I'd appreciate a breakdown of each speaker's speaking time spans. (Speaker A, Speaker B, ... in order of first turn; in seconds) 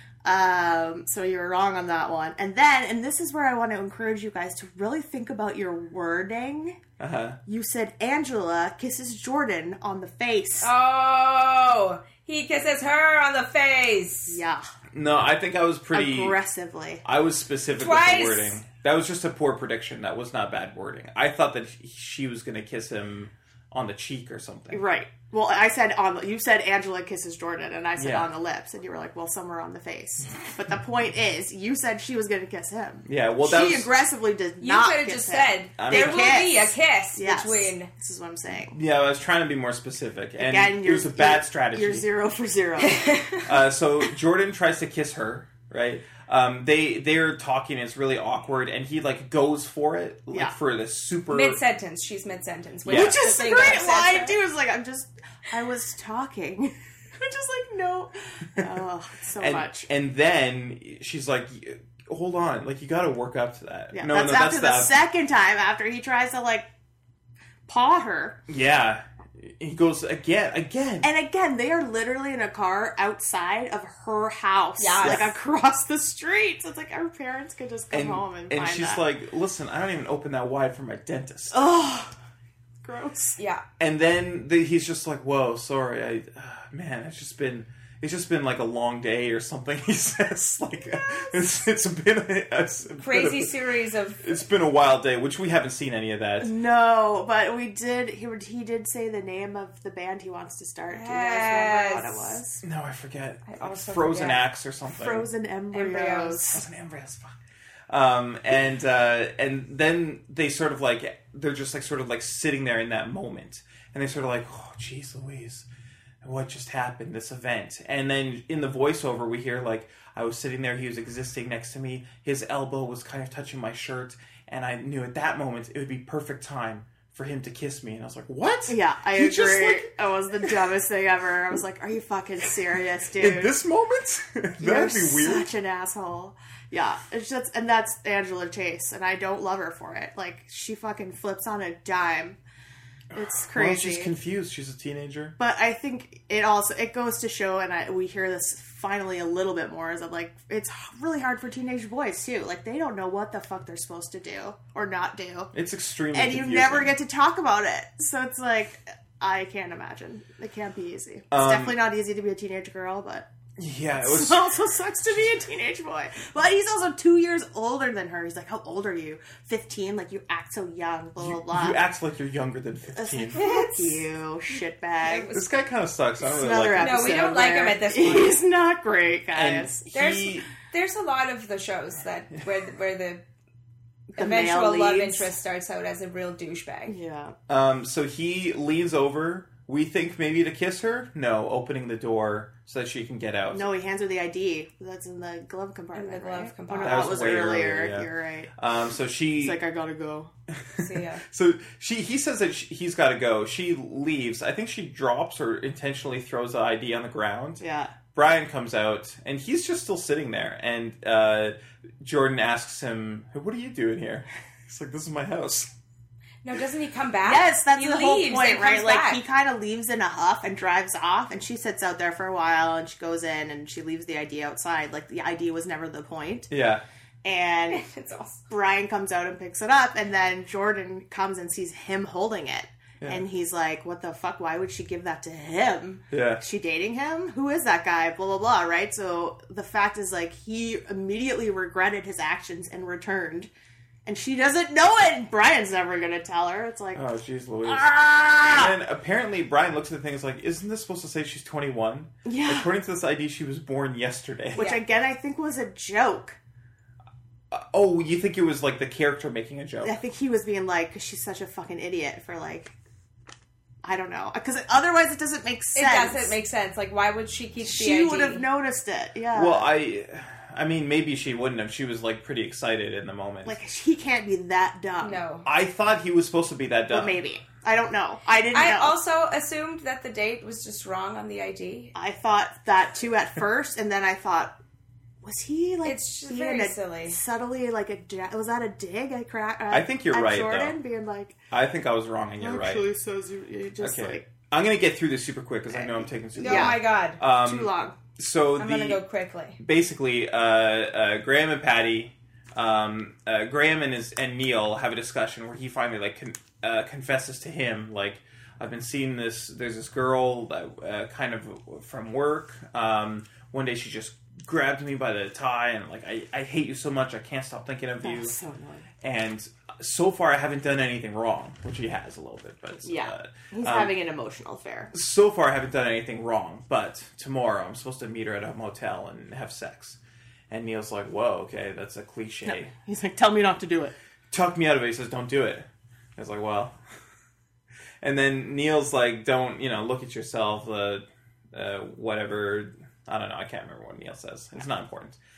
Speaker A: 0.2-6.8, 7.5-10.7, 14.3-14.7, 15.9-17.0, 24.7-38.8, 40.4-43.1, 52.9-59.9, 63.9-66.7, 67.7-68.4, 71.0-79.0, 81.5-82.1, 82.8-83.4, 96.4-102.6, 104.9-106.6, 128.7-133.6, 134.6-142.4, 143.1-144.1, 145.4-155.5, 156.1-163.3, 164.0-171.8, 172.9-175.3, 176.2-179.9, 184.2-185.3, 186.9-187.3, 193.5-198.5, 199.4-200.3, 207.6-207.9, 217.2-226.5, 227.2-227.8, 228.5-243.5, 244.1-247.1, 247.6-248.7, 252.2-252.7, 254.6-256.4, 259.8-262.7, 263.8-266.4, 267.6-269.7, 273.4-275.2, 276.9-278.9, 281.9-284.6, 285.2-291.4, 292.4-294.3, 295.7-298.0, 318.0-318.9, 322.8-324.9, 332.4-333.9
Speaker B: 7.0-7.4, 14.9-16.4, 17.0-24.8, 28.0-28.3, 33.1-33.9, 35.8-36.4, 38.7-42.1, 43.5-51.6, 52.9-53.2, 59.4-65.0, 68.5-71.1, 77.9-81.6, 83.8-93.5, 94.2-96.5, 102.6-105.3, 106.5-107.3, 107.9-115.7, 116.2-129.9, 133.2-135.5, 143.1-145.4, 155.5-157.0, 161.3-161.8, 163.6-164.5, 171.2-173.4, 175.3-177.2, 179.3-180.5, 187.5-193.7, 196.8-199.6, 200.6-207.6, 208.1-215.7, 226.5-226.8, 236.1-236.4, 246.9-254.6, 257.5-260.0, 269.3-273.6, 275.4-277.2, 289.7-290.8, 291.5-292.9, 293.8-299.0, 299.6-318.3, 319.0-323.9, 324.9-330.0, 330.5-332.7, 334.3-336.8, 338.0-345.2
Speaker C: 10.6-14.4, 17.8-18.6, 34.6-37.9, 42.8-43.4, 51.3-54.4, 74.8-75.4, 83.4-83.6, 93.0-94.3, 100.9-102.4, 103.5-104.4, 105.7-106.5, 173.3-174.1, 175.0-175.4, 176.8-178.4, 179.9-183.2, 184.2-186.9, 195.9-197.2, 200.8-201.2, 216.4-219.2, 227.7-228.4, 254.6-254.8, 265.7-268.4, 275.0-275.4, 278.5-281.9, 285.8-287.2, 296.4-297.2, 298.6-299.6